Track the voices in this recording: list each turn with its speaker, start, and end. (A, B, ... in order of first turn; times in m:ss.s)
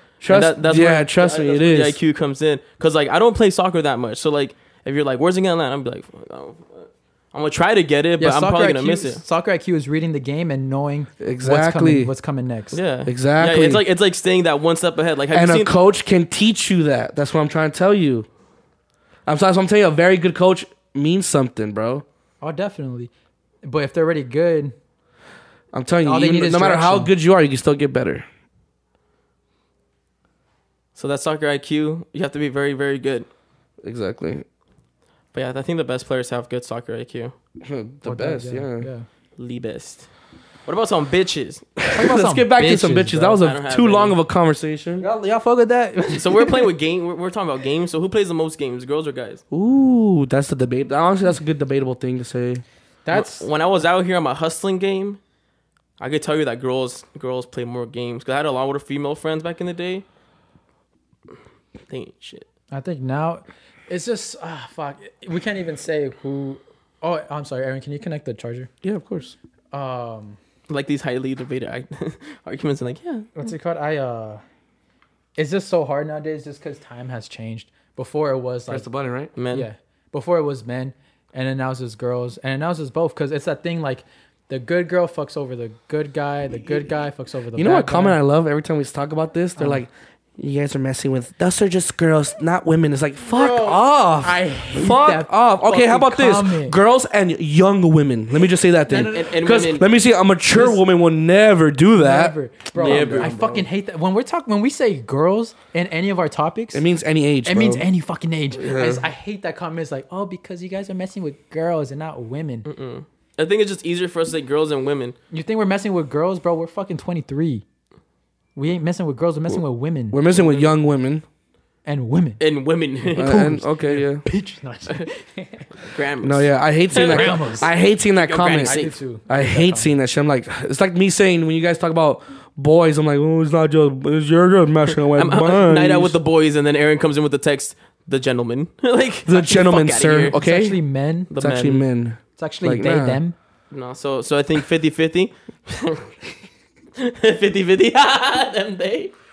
0:00.2-0:02.0 A
0:00.3-0:09.2 B
0:08.2-0:12.8 C
0:11.2-0:12.1 A
0:12.7-0:15.7 B
0:13.0-0:13.8 A
0:15.3-0:18.3 A
0:19.2-0:22.0 A
0:22.4-0:23.1 C
0:23.6-0:24.7 C
0:25.7-0:28.2 A
0:26.0-0:27.1 C
0:31.0-0:33.3 B
0:33.8-0:34.4 A
0:35.3-0:37.3 B
0:37.6-0:38.9 A
0:38.0-0:39.0 C
0:39.4-0:40.1 B
0:40.6-0:41.6 B
0:41.8-0:45.0 A
0:41.9-0:43.4 C
0:43.4-0:44.2 B
0:45.0-0:46.7 C
0:46.1-0:49.4 B
0:49.5-0:52.6 A
0:53.0-0:53.5 C
0:53.1-0:55.2 B
0:56.0-1:00.0 B
1:01.9-1:02.4 B
1:02.7-1:08.7 C
1:08.8-1:09.4 A
1:09.7-1:10.4 C
1:10.7-1:13.3 B
1:13.3-1:14.4 C
1:15.4-1:18.9 C
1:18.7-1:19.3 A
1:19.4-1:19.7 B
1:19.5-1:28.2 C
1:27.5-1:43.7 A
1:29.6-1:29.8 C
1:33.2-1:36.8 C
1:38.9-1:39.4 C
1:39.1-1:39.9 B
1:40.5-1:40.8 C
1:42.0-1:46.8 C
1:42.8-1:43.4 B
1:46.7-1:47.8 A
1:47.4-1:52.7 C
1:48.5-1:49.0 A
1:52.6-1:55.2 B
1:55.3-1:57.6 C
1:58.6-2:00.2 C
2:00.1-2:01.2 A
2:00.3-2:00.7 B
2:01.8-2:02.4 C
2:02.4-2:03.5 B
2:03.0-2:05.7 C
2:03.1-2:04.2 A
2:05.8-2:09.0 B
2:06.2-2:16.2 A
2:07.0-2:07.7 C
2:08.6-2:09.9 C
2:15.1-2:20.4 B
2:19.2-2:20.8 A
2:20.4-2:21.3 C
2:21.3-2:21.8 B
2:21.4-2:23.2 A
2:22.4-2:23.4 C
2:23.7-2:26.1 B
2:27.0-2:29.1 B